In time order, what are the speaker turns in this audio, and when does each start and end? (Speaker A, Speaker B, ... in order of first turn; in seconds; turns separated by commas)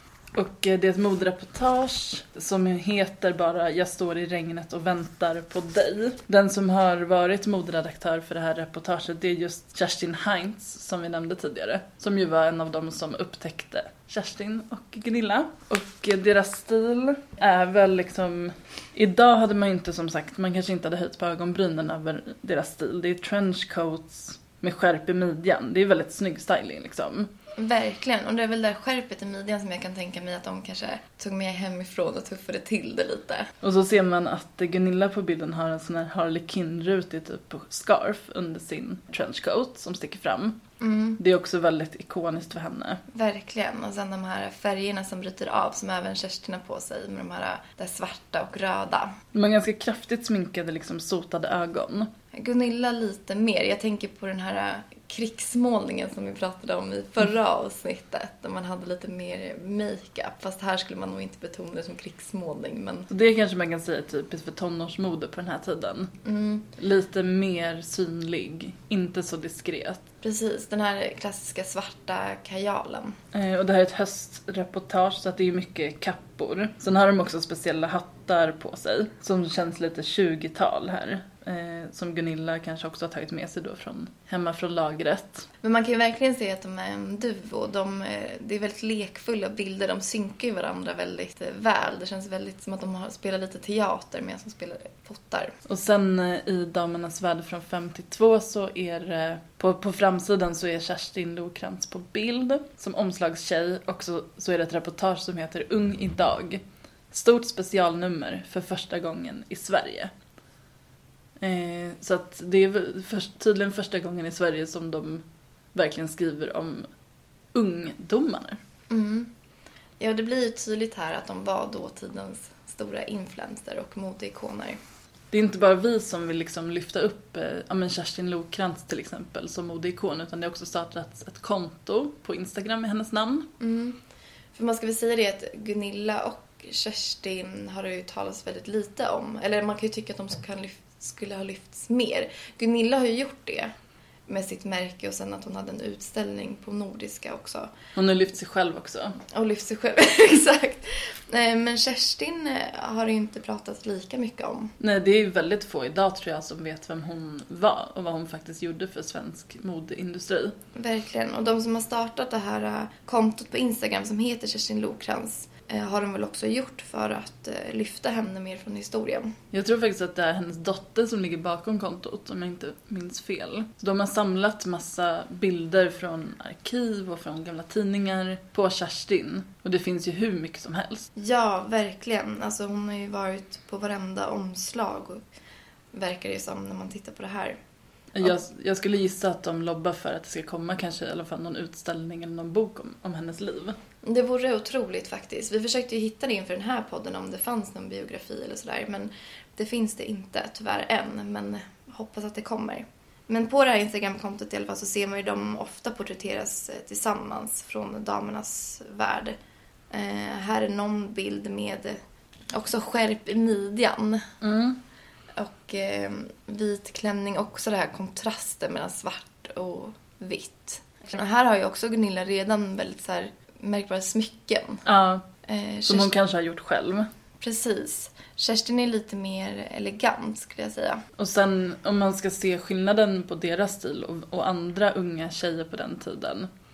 Speaker A: 0.3-27.3, Speaker B: 27.6-33.5, Speaker A: 33.6-40.6, Speaker B: 40.8-41.2, Speaker A: 41.2-43.0, Speaker B: 43.1-49.1, Speaker A: 49.3-52.1, Speaker B: 52.3-63.1, Speaker A: 63.1-66.1, Speaker B: 66.2-66.7, Speaker A: 66.8-70.0, Speaker B: 70.2-73.2, Speaker A: 73.3-85.5, Speaker B: 85.6-95.5, Speaker A: 95.7-110.1, Speaker A: 111.4-116.9, Speaker A: 117.5-118.6, Speaker B: 118.9-119.3, Speaker B: 120.0-124.8, Speaker A: 125.3-133.5, Speaker B: 133.6-134.0, Speaker B: 134.5-143.7, Speaker B: 144.3-147.7, Speaker A: 147.9-149.2, Speaker B: 149.3-154.7, Speaker A: 154.8-160.6, Speaker B: 160.8-169.3, Speaker A: 169.5-181.1, Speaker B: 181.2-185.2, Speaker B: 185.9-187.6, Speaker A: 188.1-193.8, Speaker B: 194.0-209.3, Speaker B: 209.9-212.0, Speaker B: 212.5-214.2, Speaker A: 214.4-214.8, Speaker B: 215.4-224.8, Speaker A: 224.8-225.2, Speaker B: 225.4-226.1, Speaker A: 225.9-227.1, Speaker B: 227.4-231.0, Speaker A: 231.2-236.5